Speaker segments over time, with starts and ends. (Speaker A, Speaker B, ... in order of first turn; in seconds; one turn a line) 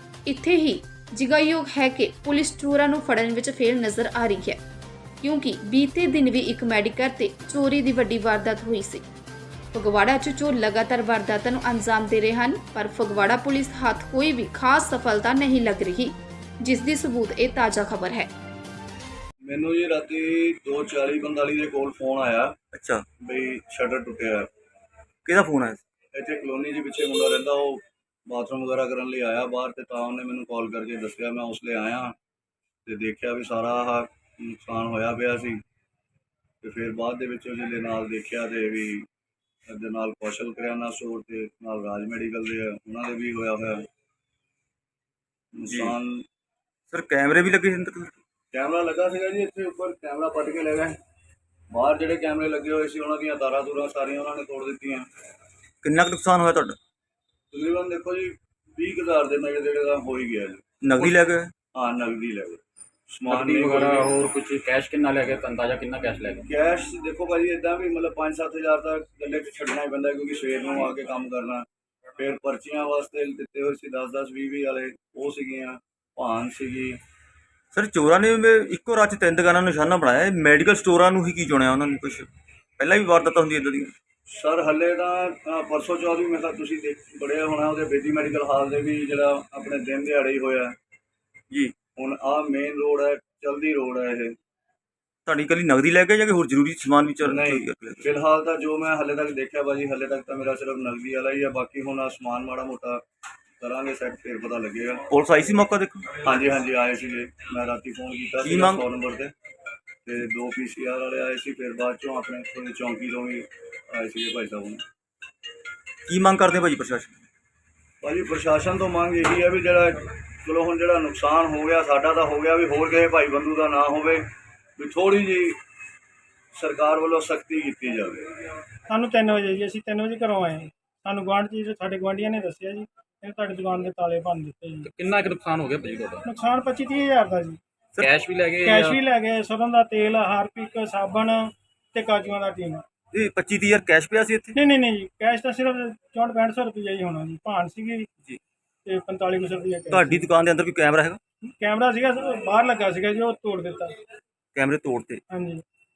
Speaker A: 0.2-4.6
Speaker A: 5.2-9.0
Speaker A: 9.7-18.3
Speaker B: 19.4-22.6
Speaker C: 22.7-23.0
Speaker B: 23.2-24.5
Speaker C: 25.2-25.8
Speaker B: 26.1-32.1
Speaker B: 32.9-35.6
Speaker B: 36.6-39.0
Speaker B: 39.7-43.8
Speaker B: 45.5-46.2
Speaker C: 45.6-45.9
Speaker C: 46.9-48.2
Speaker B: 48.5-51.0
Speaker B: 51.7-55.0
Speaker C: 55.8-56.8
Speaker B: 57.5-60.6
Speaker C: 60.8-61.5
Speaker B: 61.7-64.1
Speaker D: 63.3-66.4
Speaker B: 66.4-71.7
Speaker B: 72.2-77.0
Speaker C: 77.7-83.9
Speaker B: 84.3-90.7
Speaker B: 92.0-94.3
Speaker C: 95.2-98.0
Speaker B: 97.2-103.0
Speaker B: 103.6-105.0
Speaker C: 105.1-106.2
Speaker B: 106.2-109.3
Speaker C: 108.4-108.8
Speaker B: 110.0-114.8
Speaker C: 116.1-117.2
Speaker B: 118.0-124.2
Speaker B: 124.8-125.6
Speaker B: 126.5-128.3
Speaker E: 128.9-134.9
Speaker D: 134.8-136.2
Speaker E: 136.2-137.6
Speaker D: 138.0-139.0
Speaker E: 138.6-142.8
Speaker C: 143.1-144.6
Speaker E: 144.6-148.1
Speaker E: 148.8-150.3
Speaker C: 149.9-151.2
Speaker E: 151.4-153.9
Speaker C: 154.5-155.2
Speaker E: 155.3-155.6